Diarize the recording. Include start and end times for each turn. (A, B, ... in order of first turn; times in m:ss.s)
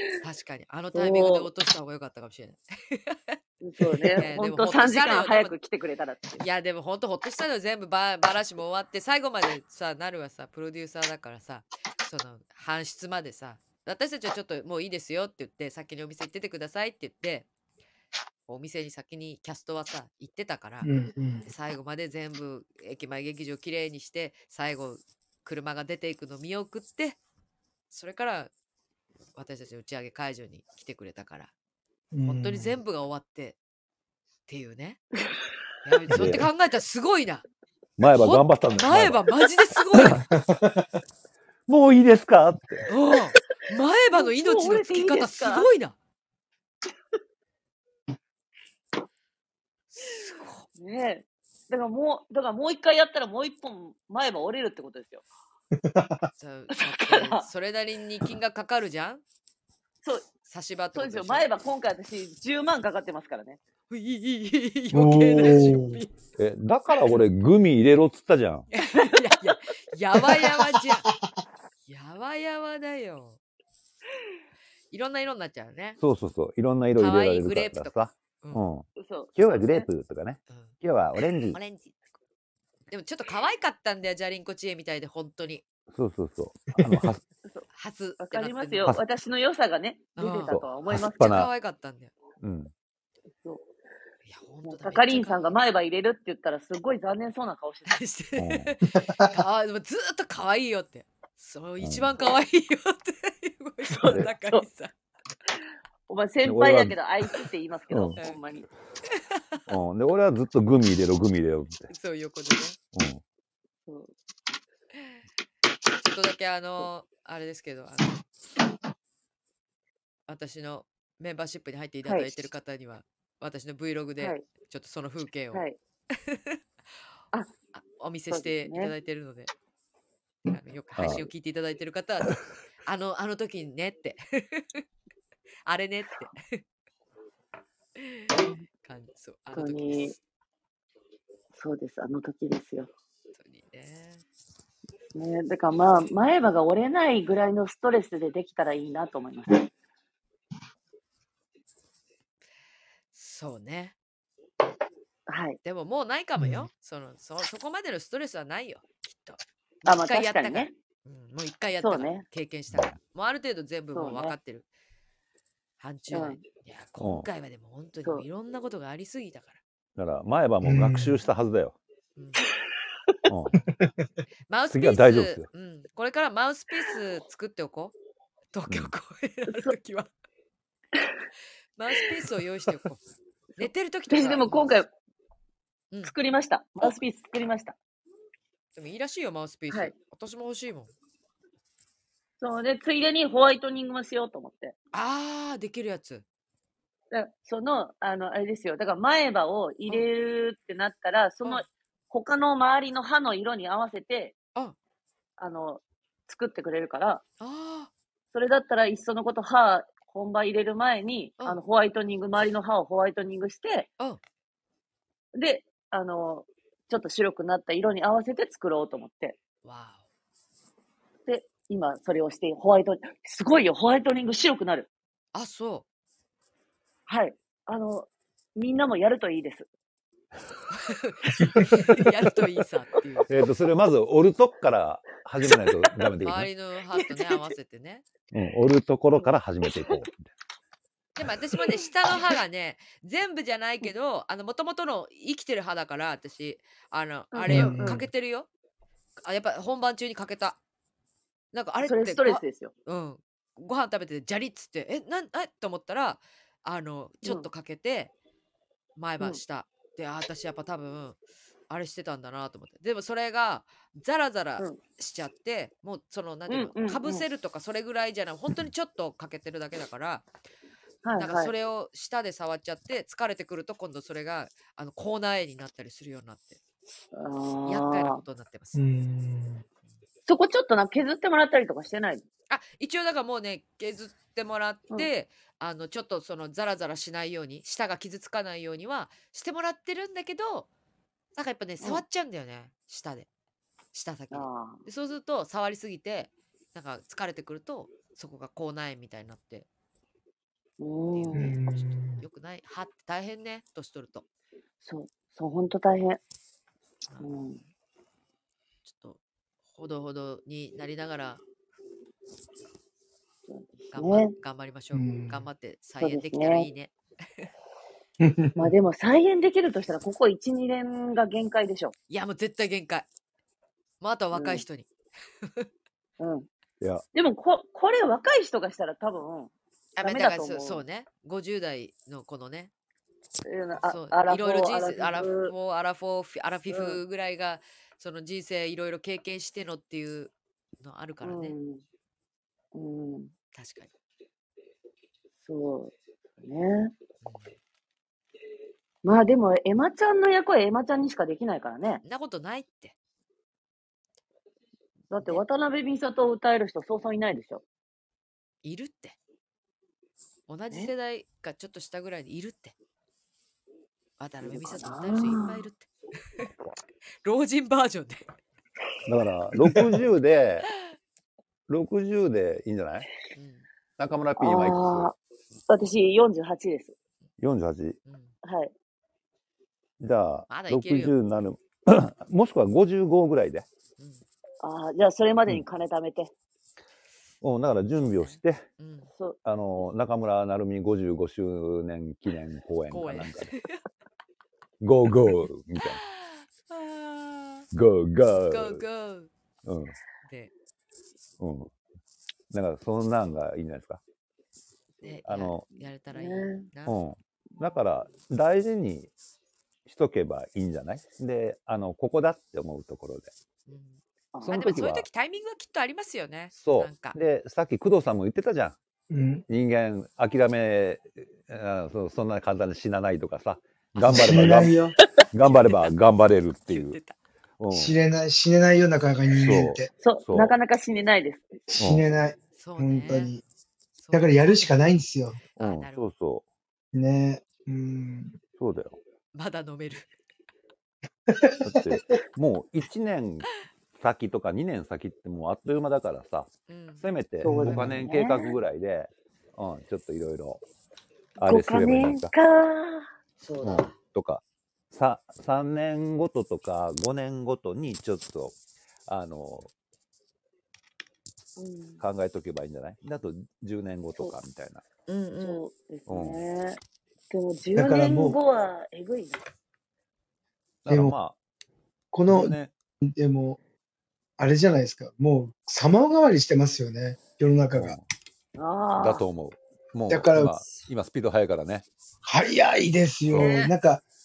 0:00.2-0:03.4 A
0:00.9-0:01.5 B
0:03.6-0:06.4 B
0:04.0-0:05.5 A
0:06.4-0:17.5 A
0:18.5-0:20.9 A
0:20.8-0:21.5 C
0:21.4-0:27.2 A
0:27.9-0:28.5 A
0:29.3-0:31.5 A
0:32.1-0:32.8 C
0:32.2-0:33.6 A
0:34.5-0:35.0 A
0:35.8-0:37.4 A
0:36.1-0:36.5 D
0:38.0-0:39.2 D
0:38.1-0:40.3 A
0:40.4-0:40.8 C
0:41.7-0:42.8 D
0:42.9-0:45.9 A
0:44.1-0:45.7 B
0:49.9-0:50.7 A
0:50.8-0:55.2 B
0:55.8-0:56.3 C
0:56.4-0:59.2 A
0:56.7-0:57.5 B
1:00.4-1:01.4 A
1:00.9-1:03.6 B
1:03.9-1:06.1 A
1:04.9-1:06.0 C
1:06.4-1:08.7 D
1:08.7-1:11.1 A
1:11.8-1:13.4 A
1:14.9-1:16.0 A
1:16.0-1:21.6 D
1:17.0-1:18.6 A
1:19.0-1:19.9 B
1:21.5-1:22.0 A
1:22.9-1:25.6 A
1:25.9-1:27.2 D
1:26.8-1:27.1 C
1:27.7-1:29.0 A
1:28.2-1:31.4 B
1:30.2-1:30.6 A
1:30.5-1:31.5 D
1:31.2-1:32.1 A
1:32.4-1:32.7 D
1:34.2-1:35.6 A
1:34.6-1:38.0 B
1:37.9-1:44.9 A
1:38.4-1:38.7 D
1:38.9-1:39.4 C
1:41.8-1:42.1 D
1:43.9-1:44.6 B
1:46.1-1:48.7 B
1:46.4-1:47.0 D
1:47.9-1:48.2 D
1:49.1-1:49.6 A
1:49.7-1:51.9 D
1:51.9-1:52.8 A
1:52.9-1:53.2 D
1:53.9-1:54.1 B
1:56.0-1:58.2 A
2:00.3-2:05.6 A
2:02.0-2:02.4 B
2:05.5-2:05.8 B
2:06.1-2:06.6 A
2:07.7-2:09.5 A
2:08.3-2:08.9 B
2:10.5-2:14.8 A
2:11.0-2:11.3 D
2:15.6-2:16.6 A
2:18.0-2:20.2 A
2:18.3-2:18.6 B
2:19.5-2:20.1 B
2:21.5-2:22.9 B
2:23.3-2:24.2 A
2:25.1-2:29.7 B
2:33.1-2:33.9 A
2:35.3-2:35.6 B
2:35.6-2:44.7 A
2:36.4-2:36.7 C
2:39.8-2:40.7 B
2:41.8-2:42.2 B
2:42.7-2:43.0 D
2:43.9-2:44.4 B
2:45.8-2:49.6 A
2:46.1-2:46.4 B
2:47.0-2:47.3 D
2:50.0-2:51.8 D
2:50.6-2:51.2 C
2:52.2-2:52.4 A
2:53.3-2:53.5 D
2:54.5-2:57.9 A
2:54.7-2:55.4 D
2:58.5-3:00.1 A
2:59.5-2:59.7 B
3:01.8-3:03.0 A
3:03.6-3:04.8 A
3:03.6-3:04.9 B
3:06.0-3:07.8 B
3:08.7-3:10.9 A
3:12.4-3:14.7 B
3:14.9-3:16.2 A
3:17.1-3:24.4 B
3:25.4-3:27.2 B
3:27.4-3:27.9 A
3:28.3-3:33.9 B
3:35.3-3:39.4 B
3:39.6-3:40.0 A
3:41.2-3:44.9 B
3:45.3-3:45.8 A
3:47.1-3:49.7 B
3:50.7-3:53.3 A
3:51.4-3:52.0 B
3:53.3-3:56.5 D
3:56.2-3:58.0 A
3:56.9-3:57.5 B
3:58.3-4:00.3 D
3:59.2-4:00.0 B
4:01.2-4:08.5 A
4:07.3-4:08.1 B
4:07.5-4:08.0 C
4:09.2-4:10.6 A
4:11.5-4:18.1 A
4:11.8-4:12.7 B
4:17.2-4:17.5 B
4:19.0-4:21.2 A
4:21.7-4:30.2 A
4:26.5-4:27.2 B
4:31.0-4:31.5 B
4:31.1-4:36.6 A
4:37.1-4:38.2 B
4:37.6-4:38.8 A
4:38.7-4:39.6 C
4:40.2-4:42.2 B
4:42.5-4:50.7 A
4:51.4-4:53.3 A
4:53.9-4:59.7 A
4:54.3-4:54.8 B
5:00.8-5:01.5 B
5:01.1-5:04.2 A
5:01.3-5:02.2 C
5:04.8-5:06.2 B
5:07.2-5:07.6 B
5:08.8-5:09.2 A
5:09.7-5:11.4 A
5:13.5-5:14.3 B
5:13.9-5:17.5 A
5:14.9-5:15.5 C
5:16.0-5:16.7 B
5:18.2-5:18.7 C
5:18.6-5:21.9 B
5:22.1-5:23.1 A
5:24.0-5:24.9 A
5:24.3-5:24.6 B
5:26.2-5:26.5 B
5:26.8-5:27.0 D
5:27.1-5:30.8 B
5:30.0-5:32.7 A
5:33.4-5:35.5 B
5:33.8-5:41.5 A
5:36.7-5:37.0 B
5:41.2-5:41.8 B
5:42.7-5:43.3 B
5:43.5-5:43.9 A
5:45.4-5:46.9 B
5:47.2-5:47.5 A
5:49.0-5:52.0 B
5:52.0-5:52.9 A
5:55.1-5:57.6 B
5:58.6-5:59.2 A
6:00.5-6:02.7 A
6:04.2-6:06.5 A
6:04.4-6:05.6 B
6:07.2-6:08.3 A
6:09.0-6:10.7 D
6:09.6-6:10.0 C
6:11.7-6:13.1 D
6:13.3-6:13.6 A
6:14.0-6:15.1 D
6:14.4-6:15.1 B
6:15.7-6:16.9 B
6:17.4-6:18.0 D
6:18.0-6:18.3 A
6:18.4-6:18.7 B
6:20.0-6:23.6 D
6:20.5-6:21.1 A
6:24.0-6:24.2 A
6:24.6-6:26.3 B
6:27.4-6:28.6 D
6:28.0-6:29.1 A
6:29.1-6:29.4 B
6:29.4-6:33.6 D
6:32.9-6:33.8 A
6:34.8-6:36.0 D
6:35.8-6:37.6 A
6:37.7-6:38.8 D
6:38.4-6:39.3 A
6:39.6-6:40.0 D
6:40.2-6:40.5 A
6:41.4-6:41.7 D
6:42.5-6:44.0 D
6:45.0-6:47.0 A
6:45.2-6:45.7 D
6:46.1-6:46.7 B
6:46.8-6:49.1 D
6:49.8-6:53.3 D
6:53.7-6:54.0 A
6:54.3-6:54.8 B
6:54.4-6:55.0 D
6:54.5-6:57.2 A
6:56.5-6:58.8 D
6:59.1-6:59.4 C
6:59.5-7:04.7 D
7:04.0-7:05.0 C
7:05.3-7:07.0 D
7:05.4-7:06.0 A
7:06.6-7:07.2 A
7:07.6-7:08.0 D
7:07.7-7:09.9 C
7:09.4-7:10.5 D
7:10.0-7:11.6 B
7:11.7-7:13.4 C
7:11.8-7:12.0 D
7:12.6-7:13.4 A
7:14.0-7:14.7 A
7:14.1-7:15.4 C
7:15.5-7:16.0 A
7:15.6-7:16.4 D
7:16.9-7:18.4 C
7:18.6-7:19.0 D
7:19.3-7:20.1 A
7:21.3-7:22.0 C
7:21.6-7:30.6 D
7:26.7-7:27.0 A
7:27.4-7:28.5 B
7:27.4-7:28.0 C
7:31.4-7:32.3 D
7:31.4-7:33.1 B
7:33.4-7:33.9 A
7:33.6-7:38.6 D
7:39.1-7:39.7 D
7:41.6-7:42.0 B
7:42.0-7:44.8 D
7:45.1-7:45.6 A
7:45.4-7:49.4 B
7:46.1-7:46.4 D
7:47.7-7:48.4 C
7:50.8-7:51.3 D
7:50.9-7:51.2 C
7:52.1-7:53.6 C
7:52.3-7:52.7 D
7:54.4-7:57.9 C
7:57.7-7:58.0 D
7:58.6-7:59.2 B
7:59.0-8:01.8 D
8:00.1-8:00.6 C
8:02.2-8:04.0 C
8:03.3-8:03.6 D
8:03.4-8:03.7 A